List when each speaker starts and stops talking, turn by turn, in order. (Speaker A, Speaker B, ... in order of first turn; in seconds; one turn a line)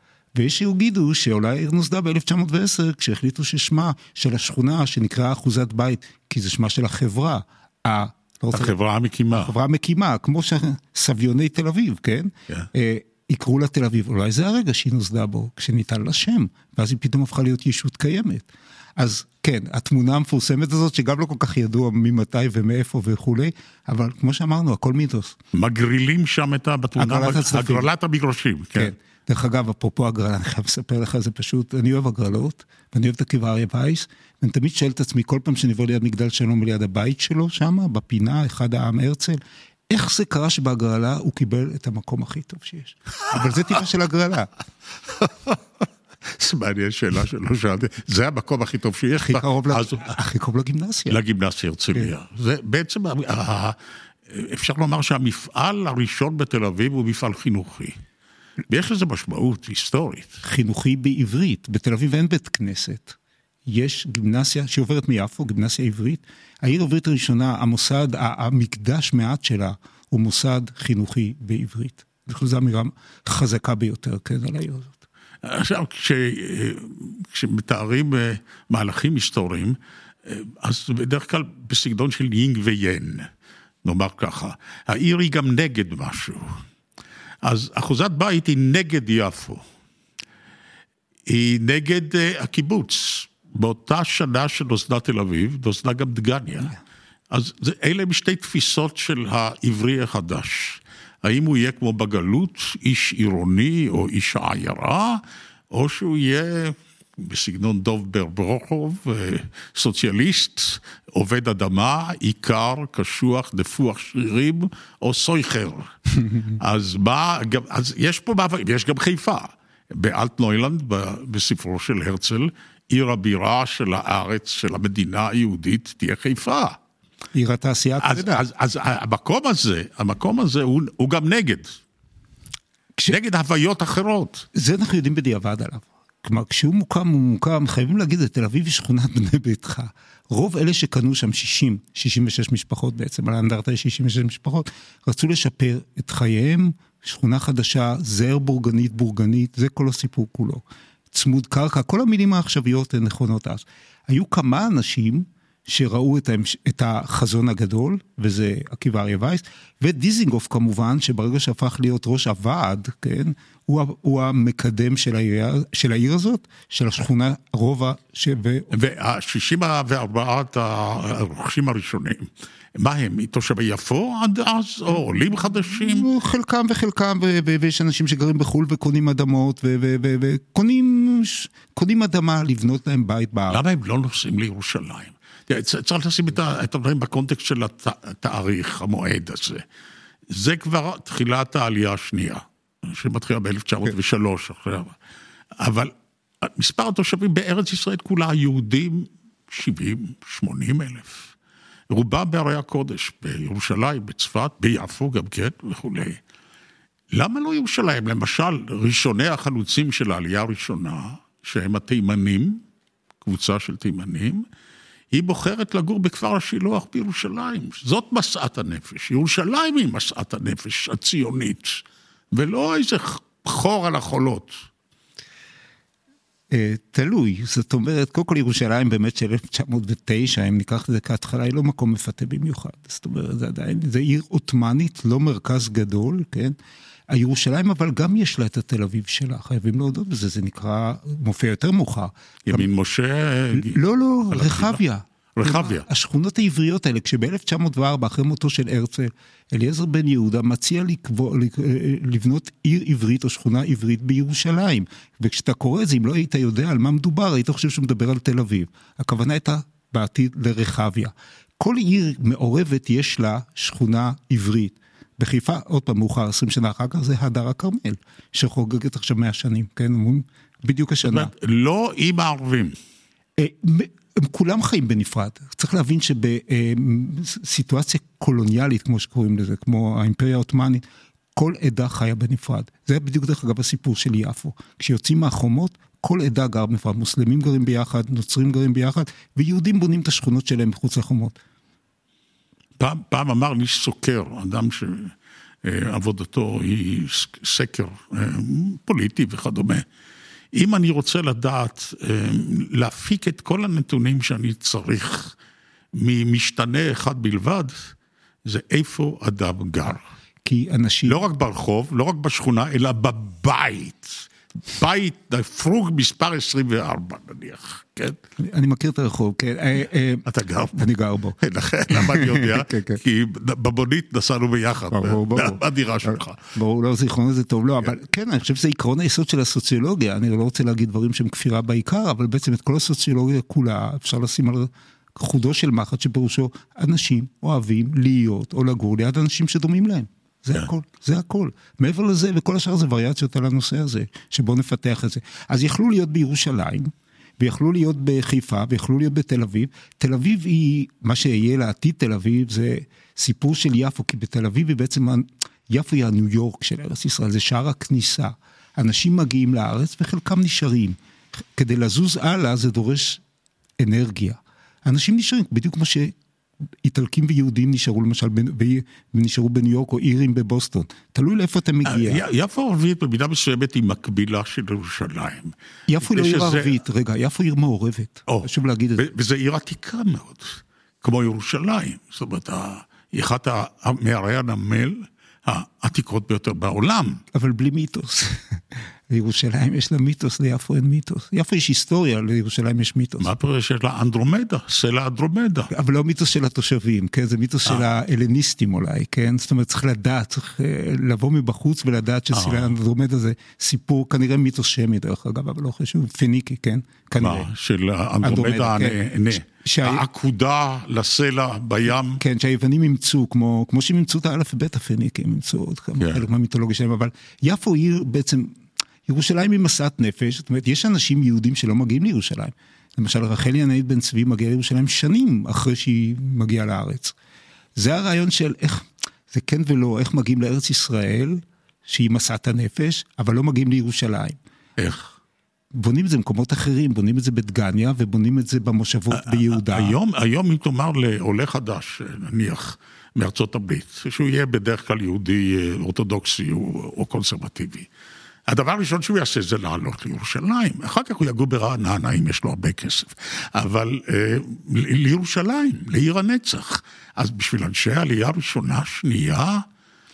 Speaker A: 0.3-8.7
Speaker B: 8.5-9.5
Speaker A: 9.3-25.4
Speaker B: 25.5-28.9
Speaker A: 27.0-27.9
Speaker A: 28.8-44.5
Speaker B: 45.2-45.6
Speaker B: 46.3-50.1
Speaker A: 49.2-51.2
Speaker B: 51.1-53.8
Speaker B: 54.3-58.0
Speaker B: 58.7-60.4
Speaker A: 60.4-75.0
Speaker B: 75.4-83.3
Speaker B: 83.8-86.6
Speaker B: 87.4-89.6
Speaker B: 91.2-96.8
Speaker B: 97.3-126.8
Speaker A: 127.3-128.4
Speaker B: 128.0-131.8
Speaker B: 133.1-134.4
Speaker A: 134.5-168.7
Speaker B: 168.7-176.1
Speaker A: 175.7-183.6
Speaker B: 183.5-189.6
Speaker B: 190.3-194.9
Speaker B: 195.6-201.3
Speaker B: 201.9-206.2
Speaker B: 207.1-212.6
Speaker B: 213.2-214.4
Speaker B: 215.1-224.6
Speaker A: 226.5-236.6
Speaker A: 237.1-242.7
Speaker B: 242.5-244.8
Speaker A: 243.5-271.3
Speaker B: 245.3-245.8
Speaker B: 271.0-272.8
Speaker A: 273.4-280.8
Speaker A: 281.3-291.4
Speaker B: 292.8-299.8
Speaker B: 300.5-305.4
Speaker B: 305.9-310.0
Speaker A: 310.4-311.2
Speaker B: 311.0-318.2
Speaker A: 318.4-321.4
Speaker B: 320.2-326.4
Speaker A: 321.9-323.0
Speaker A: 324.9-363.2
Speaker A: 363.8-366.1
Speaker A: 366.8-372.2
Speaker B: 371.8-376.7
Speaker A: 375.9-379.1
Speaker B: 378.3-387.2
Speaker A: 387.3-393.3
Speaker B: 393.2-395.7
Speaker A: 395.7-407.5
Speaker B: 402.3-402.7
Speaker B: 407.2-412.2
Speaker A: 408.2-410.0
Speaker A: 412.2-427.1
Speaker A: 427.8-434.4
Speaker B: 434.8-435.1
Speaker A: 435.7-439.9
Speaker B: 439.1-447.9
Speaker B: 448.5-459.6